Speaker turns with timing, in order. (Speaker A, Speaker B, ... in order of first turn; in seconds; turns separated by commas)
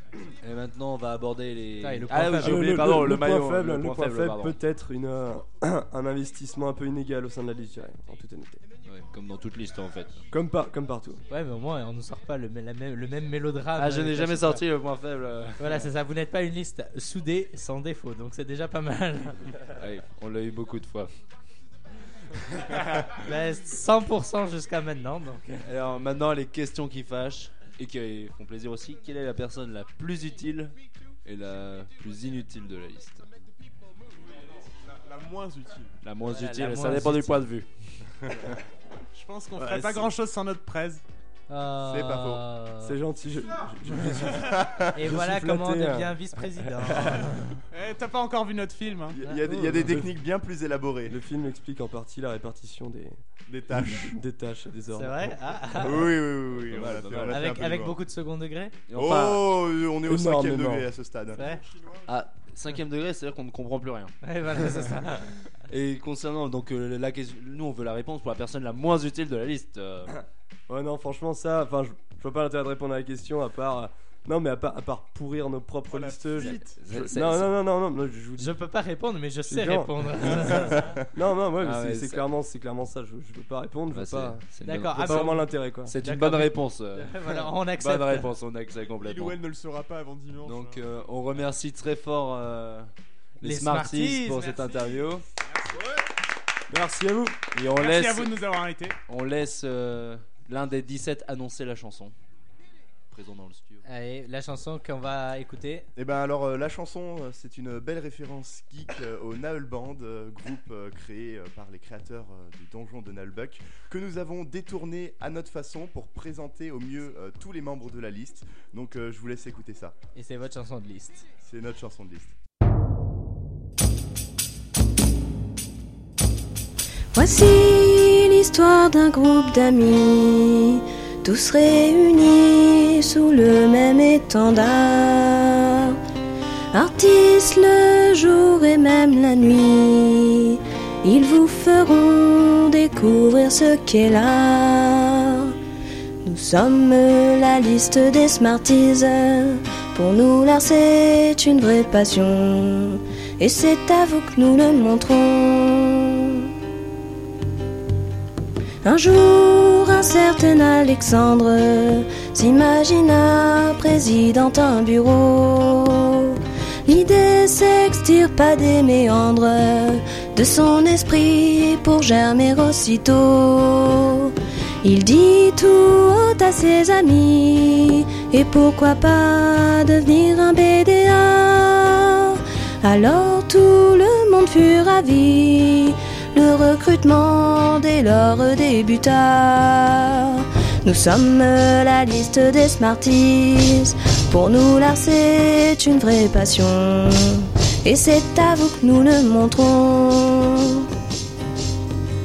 Speaker A: 0.4-4.6, Speaker B: 1.8-2.7, Speaker C: 2.3-8.6, Speaker A: 8.9-10.2, Speaker C: 10.3-11.2, Speaker B: 11.3-14.6, Speaker A: 13.8-15.9, Speaker B: 15.6-19.4, Speaker A: 19.8-21.1, Speaker A: 22.6-23.1, Speaker B: 23.1-25.7, Speaker A: 25.6-33.2, Speaker D: 34.9-35.9, Speaker A: 36.0-37.9, Speaker B: 36.2-37.4, Speaker E: 39.1-41.0, Speaker C: 39.6-40.1, Speaker B: 41.5-43.0, Speaker F: 41.8-42.5, Speaker C: 42.8-47.3, Speaker F: 44.2-45.0, Speaker B: 44.9-47.6, Speaker E: 47.7-49.2, Speaker F: 49.1-51.2, Speaker B: 49.2-49.8, Speaker C: 49.5-50.1, Speaker C: 51.1-53.2, Speaker F: 53.5-54.2, Speaker C: 53.8-55.4, Speaker B: 54.9-56.2, Speaker F: 55.7-58.0, Speaker A: 56.5-57.4, Speaker B: 57.3-58.8, Speaker A: 58.9-59.5, Speaker F: 58.9-61.4, Speaker C: 60.0-60.9, Speaker B: 61.4-61.6, Speaker D: 61.4-62.1, Speaker A: 62.1-64.2, Speaker B: 64.2-65.3, Speaker A: 65.7-70.2, Speaker C: 70.7-78.5, Speaker D: 75.9-76.8, Speaker A: 76.4-77.5, Speaker B: 78.4-80.9, Speaker C: 79.5-84.4, Speaker A: 81.6-82.3, Speaker A: 83.9-89.4, Speaker B: 84.6-88.3, Speaker C: 85.0-86.0, Speaker D: 89.0-90.9, Speaker A: 90.4-95.2, Speaker B: 93.4-94.5, Speaker E: 94.4-95.8, Speaker C: 96.7-97.5, Speaker A: 97.5-98.4, Speaker E: 97.7-99.0, Speaker A: 99.1-102.2, Speaker A: 103.1-103.8, Speaker B: 103.9-105.9, Speaker F: 106.0-120.0, Speaker B: 120.2-121.2, Speaker F: 121.4-122.3, Speaker G: 127.1-136.0, Speaker G: 136.7-145.5, Speaker G: 146.2-156.5, Speaker G: 158.8-200.9